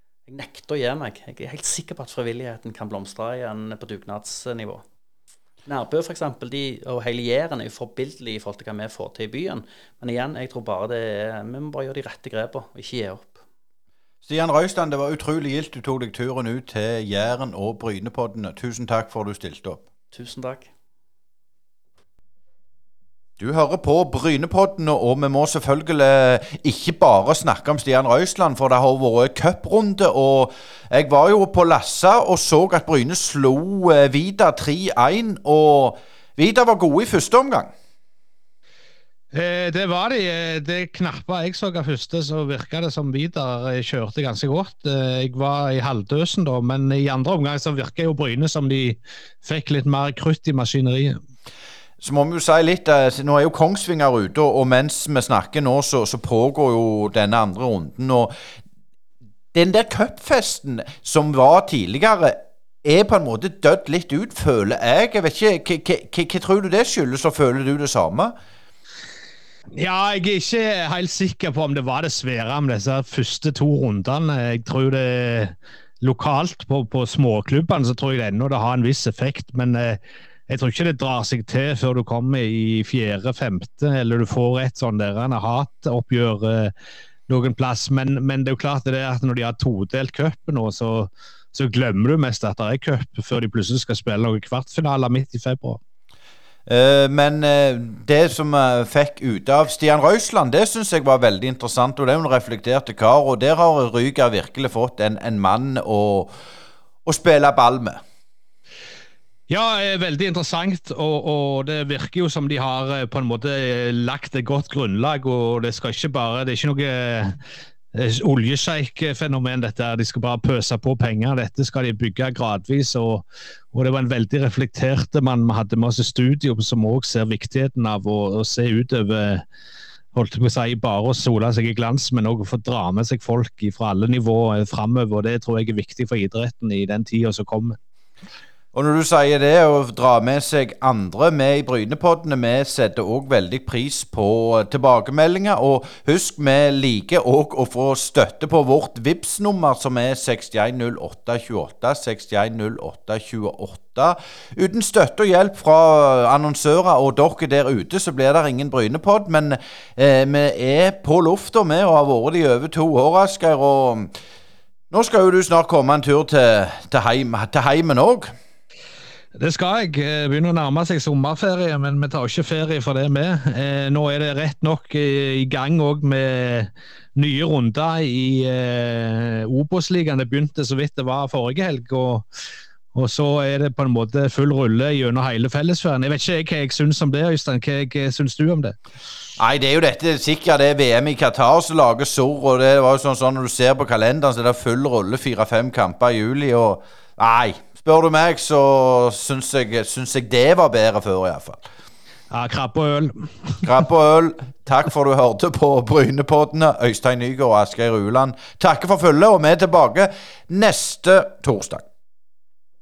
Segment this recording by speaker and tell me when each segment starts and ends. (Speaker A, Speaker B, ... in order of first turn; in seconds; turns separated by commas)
Speaker A: 0.3-4.8, Speaker A: 5.7-13.4, Speaker B: 14.2-19.8, Speaker A: 20.1-20.7, Speaker B: 23.4-37.7, Speaker C: 39.3-51.2, Speaker B: 52.0-58.3, Speaker B: 59.5-68.3, Speaker C: 69.8-86.7, Speaker C: 87.3-95.8, Speaker B: 96.7-106.3, Speaker B: 107.1-108.0, Speaker C: 109.5-117.4, Speaker C: 117.9-129.4, Speaker C: 130.1-137.8, Speaker B: 138.7-164.1, Speaker B: 164.9-168.3, Speaker C: 169.3-182.3, Speaker C: 182.9-188.8, Speaker B: 189.4-201.6, Speaker C: 202.3-203.7, Speaker B: 203.6-211.8